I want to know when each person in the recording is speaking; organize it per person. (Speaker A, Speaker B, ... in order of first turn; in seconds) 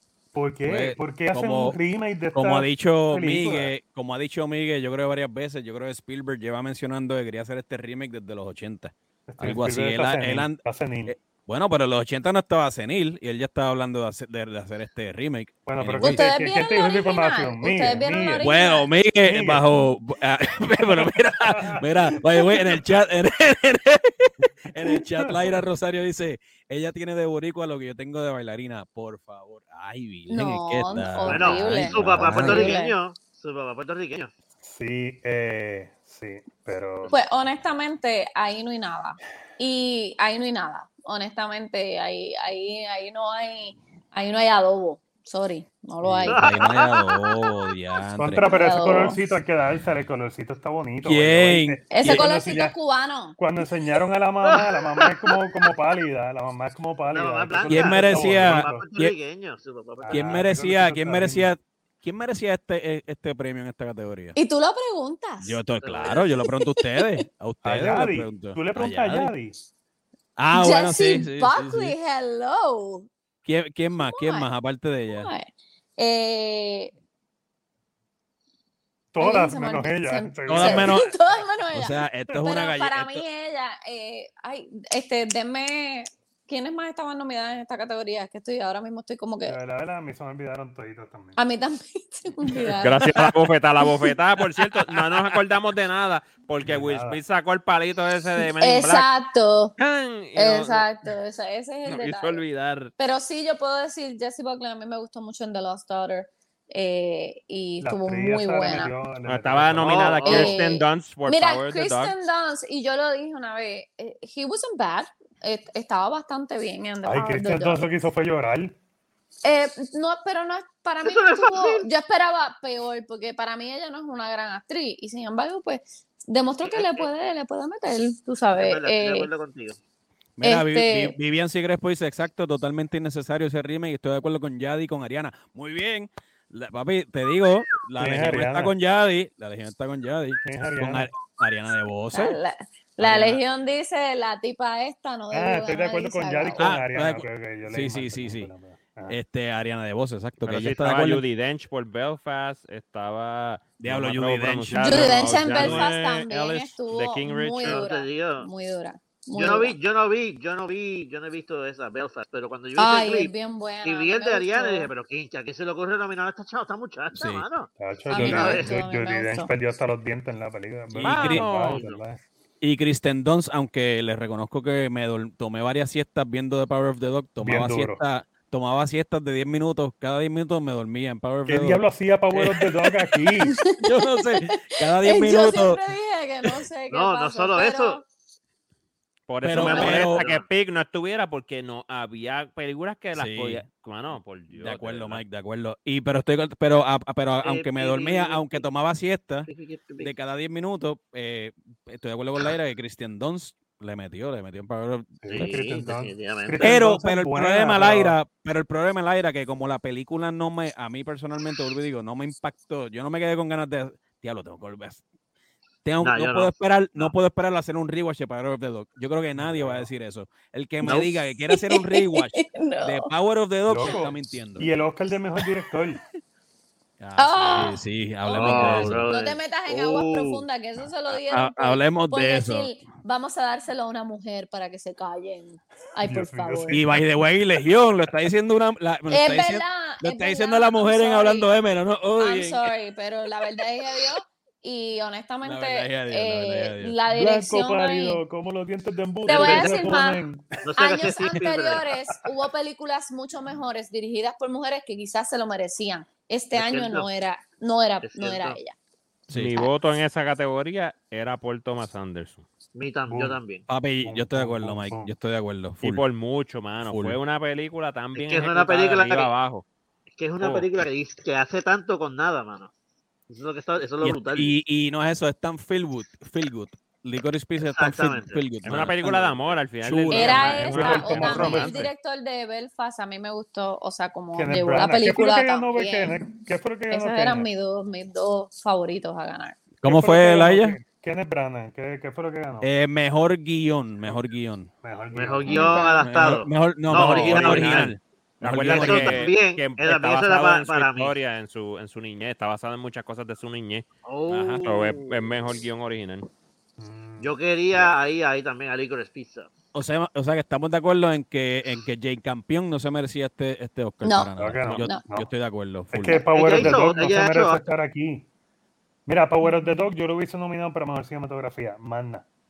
Speaker A: 0.3-3.7, 9.3-11.2, 15.7-18.5, 19.2-19.7, 21.0-21.9, 34.6-37.1, 48.2-52.8, 53.4-58.8, 60.0-61.5, 67.6-69.5, 79.1-81.1, 89.5-91.4, 96.6-97.2, 107.8-110.4, 117.0-118.7, 138.0-138.7, 140.4-141.1, 145.3-149.2, 167.8-172.2, 177.4-178.0, 181.4-183.6, 205.2-208.2, 219.3-219.9, 223.7-226.0, 236.0-237.0, 247.1-250.7, 263.1-263.4, 264.0-265.1, 280.6-281.8, 284.3-287.5, 289.8-292.7, 294.8-295.9, 306.8-307.9, 314.4-315.3, 315.9-318.2, 319.1-322.2
Speaker B: 0.7-1.8, 2.3-16.3, 18.4-32.7, 46.0-48.5, 51.0-52.2, 57.7-59.1, 60.1-64.3, 65.4-69.3, 70.4-71.9, 73.4-75.3, 80.5-81.1, 81.7-83.2, 130.4-142.4, 143.0-143.4, 146.6-148.5, 149.1-151.2, 153.8-155.9, 167.1-167.4, 170.9-171.5, 172.6-182.7, 183.8-185.8, 189.4-190.2, 193.1-193.6, 194.5-205.5, 206.6-215.0, 215.8-224.7, 227.0-229.1, 231.1-232.7, 236.7-242.7, 245.4-247.0, 259.3-259.5, 263.7-266.0, 266.8-267.2, 274.0-281.9, 289.8-290.8, 292.6-294.7, 295.5-299.3, 304.3-304.6, 309.7-316.2
Speaker C: 16.0-18.9, 30.3-33.0, 37.1-46.5, 48.4-49.2, 51.9-53.4, 64.3-67.2, 70.5-73.1, 74.0-74.5, 75.1-76.9, 79.2-89.6, 91.3-94.1, 98.6-99.7, 100.3-102.4, 103.0-108.9, 110.2-117.8, 119.4-129.3, 130.4-131.2, 142.1-146.8, 154.8-159.8, 162.8-164.9, 168.1-169.5, 183.5-188.1, 221.5-223.1, 227.2-236.8, 239.1-241.5, 242.2-248.2, 249.2-250.2, 250.8-258.7, 280.1-286.3, 286.9-289.6, 295.5-296.0, 314.0-314.3, 319.4-319.7
Speaker D: 31.2-34.3, 46.3-47.0, 54.4-55.4, 57.1-60.6, 65.8-66.2, 109.8-110.5, 121.0-121.9, 126.7-127.1, 128.5-129.8, 157.6-158.5, 159.3-163.3, 163.8-168.8, 171.6-172.0, 186.9-188.0, 189.6-190.5, 197.4-198.6, 199.5-200.1, 205.2-206.8, 216.0-217.1, 220.8-221.1, 228.3-230.4, 249.3-249.9, 250.6-251.9, 256.5-257.1, 258.0-258.6, 262.7-263.7, 268.1-269.3, 270.1-272.7, 273.3-274.5, 277.6-278.4, 295.1-297.9, 298.6-301.1, 304.1-305.5, 307.2-309.5, 316.3-317.6
Speaker E: 92.8-99.1, 99.8-100.8, 101.8-102.9, 109.2-112.1, 150.4-157.8, 171.0-171.8, 189.3-195.2, 259.3-262.4, 265.8-269.6, 270.4-270.7, 278.6-281.8, 296.9-303.9, 304.6-306.3